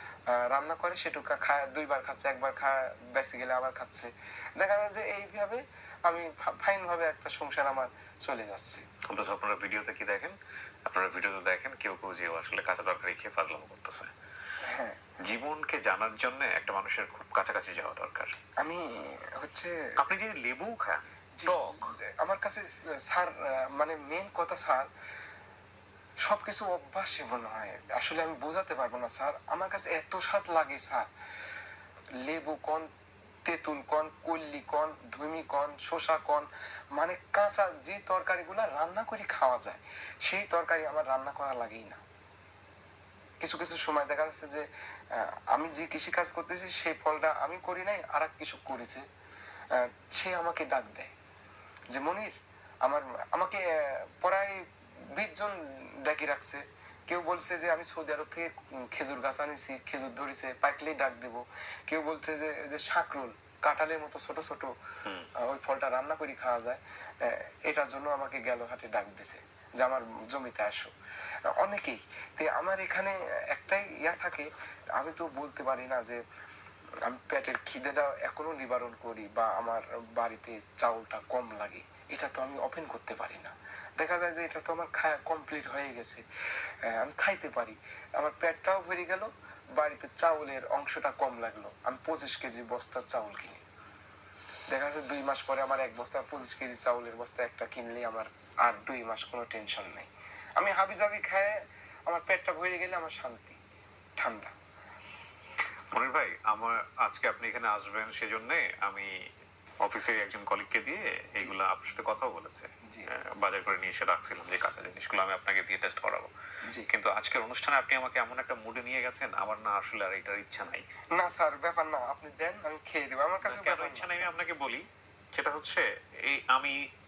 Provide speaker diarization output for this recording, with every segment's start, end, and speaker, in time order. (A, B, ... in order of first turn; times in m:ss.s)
0:00.4-0:08.8 A
0:09.1-0:10.4 B
0:10.9-0:14.1 B
0:14.6-0:15.0 A
0:15.3-0:18.3 B
0:18.6-0:19.7 A
0:20.0-0:21.9 B
0:21.4-0:24.9 A
0:26.2-0:31.0 A
0:32.2-0:32.9 A
0:33.5-0:42.0 A
0:43.4-0:49.0 A
0:49.7-0:51.1 A
0:51.9-0:54.6 A
0:55.2-1:04.7 A
1:05.4-1:10.9 A
1:11.6-1:16.2 A
1:17.0-1:26.2 A
1:26.9-1:33.6 A
1:34.7-1:41.6 A
1:42.1-1:43.6 A
1:44.2-1:44.5 A
1:45.9-1:49.1 B
1:49.8-1:56.3 B
1:56.9-2:00.8 B
2:01.1-2:04.3 A
2:03.4-2:04.8 B
2:05.3-2:06.8 B